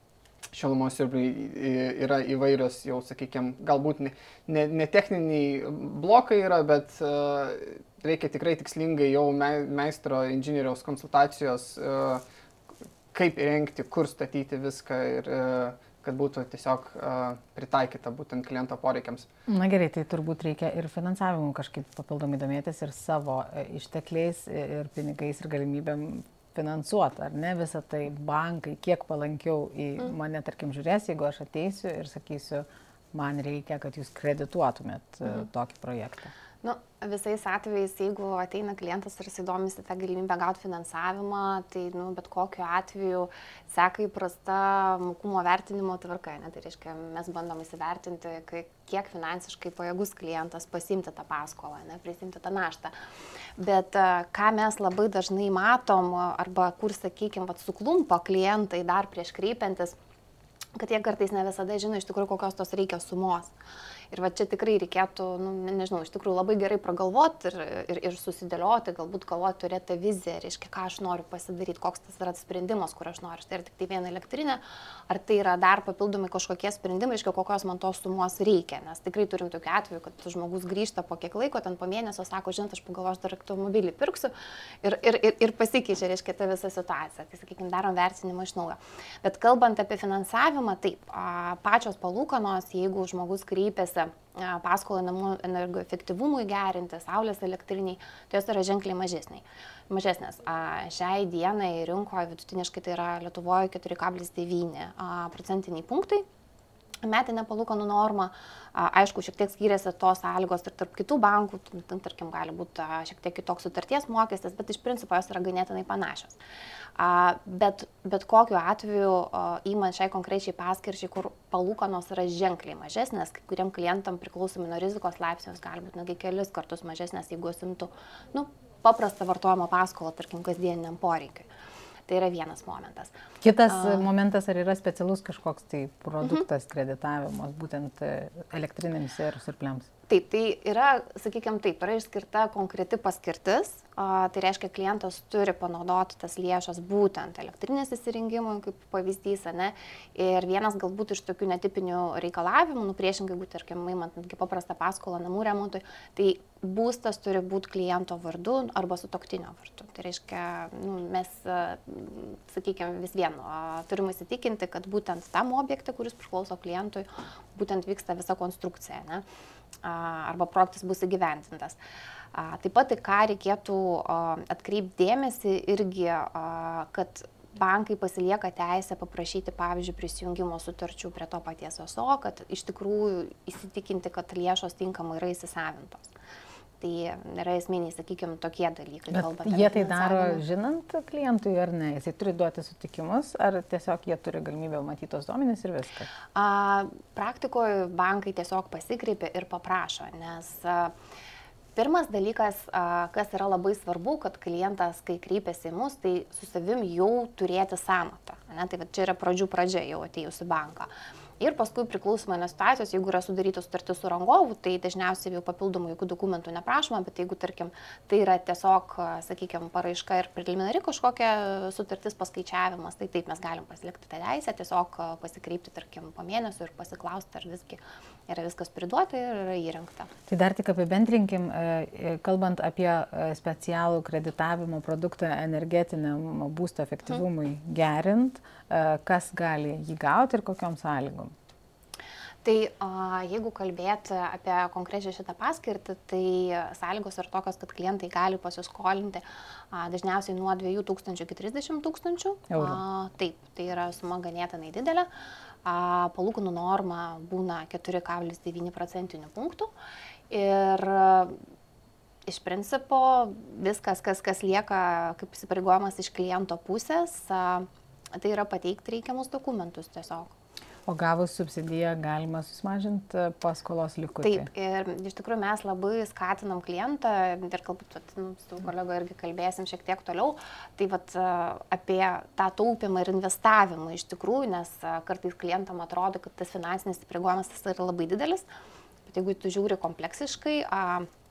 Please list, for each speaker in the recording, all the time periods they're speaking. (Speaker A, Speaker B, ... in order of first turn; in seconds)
Speaker A: 0.5-12.2, 13.1-19.3
Speaker B: 19.5-36.3, 133.4-139.9, 189.1-196.1, 230.3-241.3, 252.5-252.8, 270.9-274.5
Speaker C: 36.6-52.9, 53.6-60.0, 60.8-63.5, 64.1-106.2, 107.0-116.4, 117.0-131.5, 132.1-133.1, 133.7-134.1, 140.1-169.2, 169.8-171.8, 172.3-186.0, 186.8-190.4, 196.3-200.9, 201.8-230.1, 242.4-255.1, 255.6-259.7, 260.3-261.4, 262.2-270.3, 274.2-288.4, 289.1-291.1